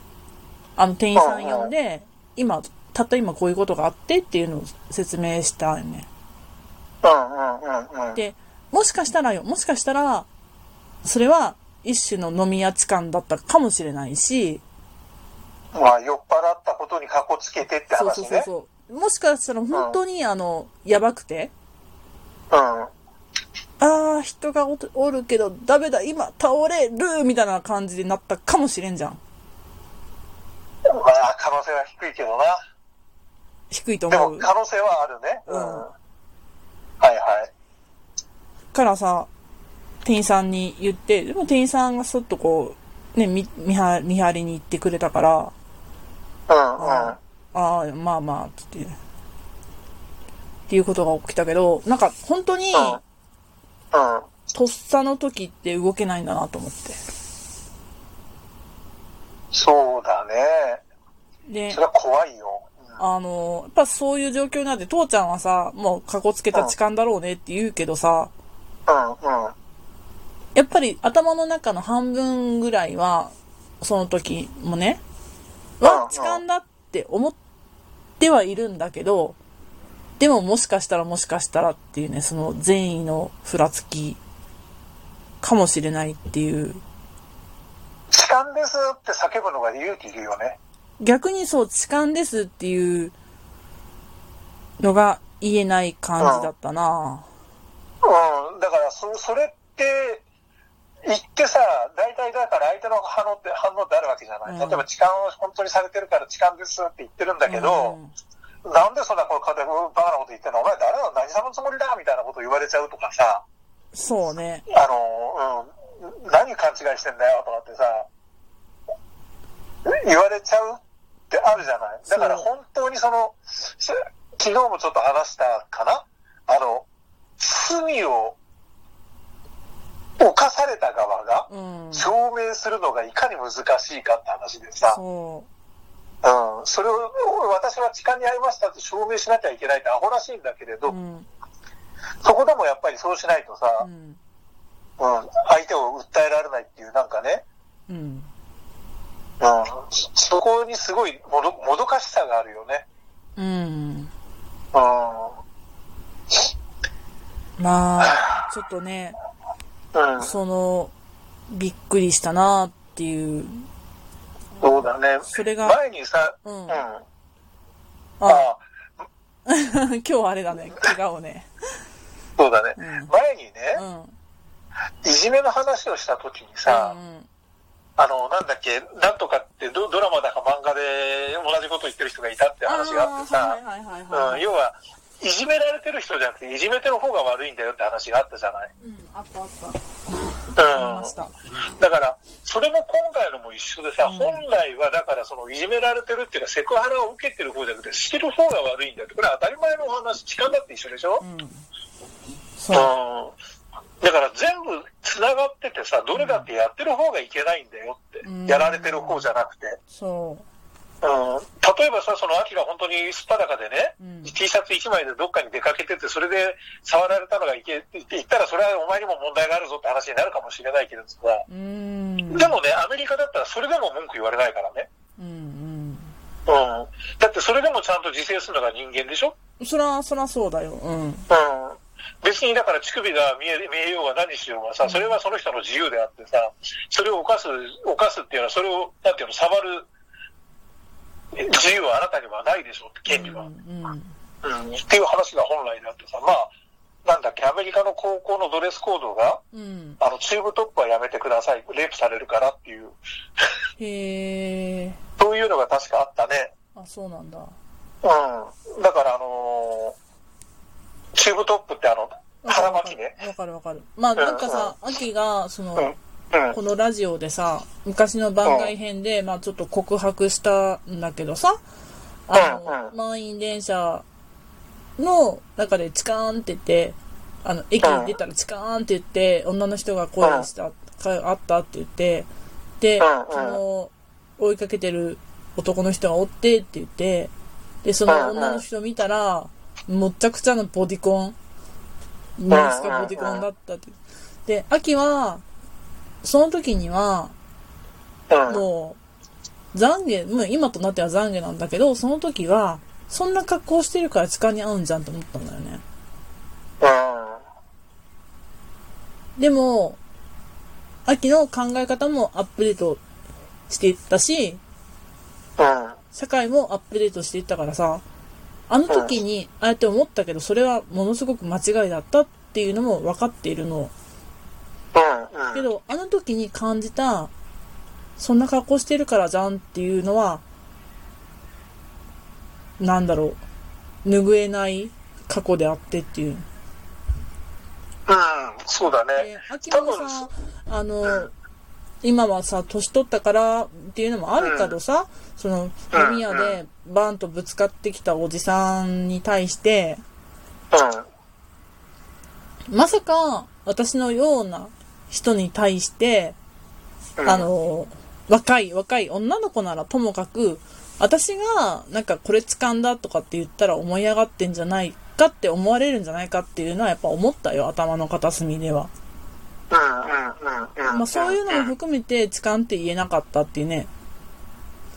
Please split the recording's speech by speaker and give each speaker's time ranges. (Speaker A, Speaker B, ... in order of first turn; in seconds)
Speaker A: 0.8-6.1, 8.1-10.3, 11.0-14.6, 17.9-21.5, 23.8-29.2, 33.7-34.5, 35.5-35.8, 38.7-39.3, 40.0-45.5, 46.8-49.0, 50.7-53.0, 54.5-57.0, 61.5-61.8, 63.0-68.3, 70.5-75.0, 75.8-77.4, 78.2-79.4, 80.2-84.2, 85.4-86.8, 91.0-93.1, 94.8-97.2, 104.5-104.8, 107.5-108.1, 113.9-114.7, 122.0-122.5, 131.5-132.1, 134.9-135.5, 140.9-141.3, 143.8-144.2, 147.9-148.3, 153.4-154.1, 157.6-159.2, 160.2-160.9, 161.5-163.7, 164.6-165.8, 166.4-166.8, 168.2-168.5, 169.4-171.5, 172.8-173.1, 173.7-174.1, 176.7-177.3, 182.7-184.5, 188.8-189.9, 190.4-191.3, 194.0-194.4, 201.2-201.6, 202.6-202.9, 206.1-206.5, 208.2-209.2, 209.9-210.4, 214.0-214.3, 221.5-222.6, 225.2-226.1, 229.6-231.3, 234.8-235.2, 243.1-244.1, 249.5-250.0, 253.8-255.0, 256.8-257.5, 262.4-265.9, 266.5-271.6, 272.3-274.0, 275.0-282.3, 282.8-287.3, 287.8-291.4, 292.4-295.4, 296.2-297.3, 298.5-299.0, 299.7-305.8, 309.4-310.0, 311.1-313.0, 313.7-314.6, 316.1-318.0, 318.7-323.9, 325.5-327.3, 328.2-330.4, 332.8-333.4, 334.0-336.4, 338.9-341.3, 342.0-350.0, 352.7-356.4, 357.2-368.9, 370.9-373.9
Speaker B: 1.1-1.7, 7.0-8.2, 15.7-18.5, 19.7-20.0, 22.5-22.9, 30.9-32.6, 34.1-35.9, 37.0-37.5, 46.5-47.2, 52.7-53.0, 53.9-54.2, 59.5-60.8, 61.7-63.0, 68.9-69.5, 75.8-76.4, 88.1-90.6, 96.2-96.5, 98.0-100.2, 101.0-108.0, 108.6-113.4, 114.7-118.1, 119.8-126.8, 127.4-128.4, 130.2-135.0, 136.2-140.9, 142.2-143.9, 145.0-147.4, 149.4-152.8, 154.7-155.3, 158.0-158.4, 159.9-160.3, 164.6-167.0, 168.2-168.6, 172.4-173.8, 175.0-176.9, 178.0-183.6, 184.1-188.7, 190.6-191.1, 191.8-201.2, 202.7-203.3, 204.0-209.8, 211.0-221.4, 222.3-224.9, 226.5-229.3, 231.3-239.9, 241.3-243.5, 244.4-246.5, 247.0-249.4, 250.0-252.9, 255.2-256.5, 258.0-259.9, 261.1-263.1, 264.2-264.7, 265.8-266.6, 268.4-268.7, 272.3-272.9, 277.8-278.1, 280.2-280.5, 283.0-283.6, 288.1-288.6, 292.5-293.4, 298.3-298.6, 306.8-307.4, 315.6-316.0, 318.9-319.1, 324.9-325.6, 338.1-340.3, 344.4-344.7, 345.9-346.6, 350.7-351.1, 357.2-357.5, 369.7-371.7